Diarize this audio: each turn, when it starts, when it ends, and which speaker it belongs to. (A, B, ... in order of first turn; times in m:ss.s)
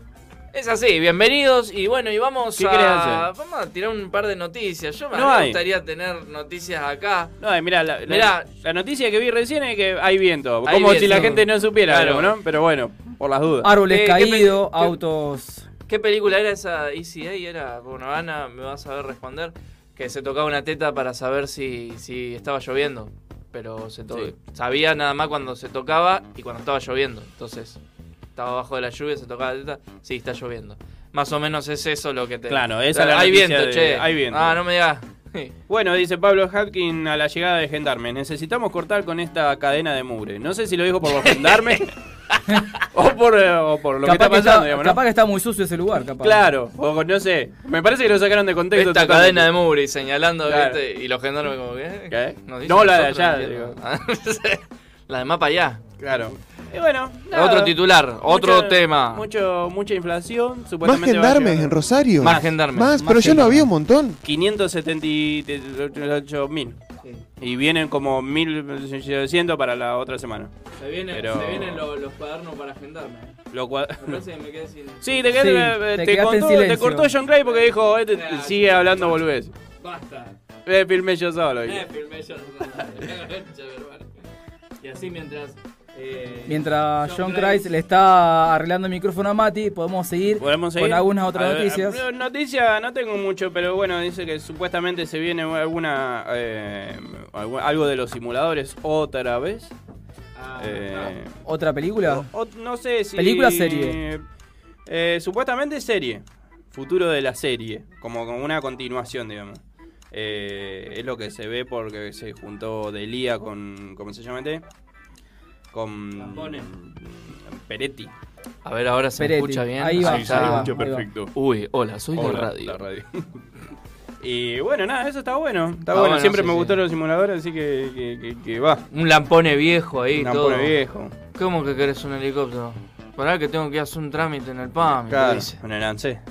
0:00.5-0:07.4 A
0:02.6-0:03.3 B
0:05.1-0:05.6 B
0:07.4-0:13.7 B
0:08.1-0:08.5 A
0:10.7-0:12.3 A
0:11.1-0:11.4 C
0:13.6-0:15.7 C
0:13.9-0:15.0 A
0:15.9-0:27.8 A
0:28.4-0:35.5 A
0:32.5-0:34.6 B
0:35.7-0:41.9 B
0:41.2-0:41.8 A
0:42.9-0:45.0 B
0:44.0-0:46.5 C
0:46.2-0:49.5 B
0:48.7-0:55.9 A
0:50.5-0:50.8 B
0:52.1-0:53.8 B
0:56.0-1:02.5 B
0:57.3-0:59.2 A
1:00.8-1:04.2 D
1:02.2-1:03.3 A
1:03.0-1:03.7 C
1:04.2-1:06.8 B
1:07.4-1:10.5 B
1:10.8-1:13.4 A
1:11.1-1:11.9 B
1:13.5-1:14.2 B
1:14.0-1:15.3 A
1:15.0-1:19.5 B
1:15.4-1:17.1 C
1:17.4-1:19.2 A
1:19.8-1:20.4 A
1:20.7-1:21.9 B
1:21.7-1:24.1 A
1:24.8-1:27.7 A
1:26.5-1:32.0 C
1:30.4-1:39.7 B
1:40.4-1:41.2 A
1:40.6-1:41.3 B
1:41.5-1:42.3 C
1:42.1-1:44.2 B
1:43.2-1:44.0 C
1:44.9-1:54.6 B
1:55.7-1:58.1 B
1:56.3-1:56.6 A
1:58.6-2:00.7 A
1:59.2-2:01.1 C
2:00.0-2:01.3 B
2:01.4-2:02.8 A
2:02.1-2:03.2 B
2:04.2-2:08.8 B
2:05.9-2:06.8 A
2:08.9-2:10.8 A
2:10.1-2:11.2 B
2:11.3-2:15.6 A
2:15.1-2:16.2 B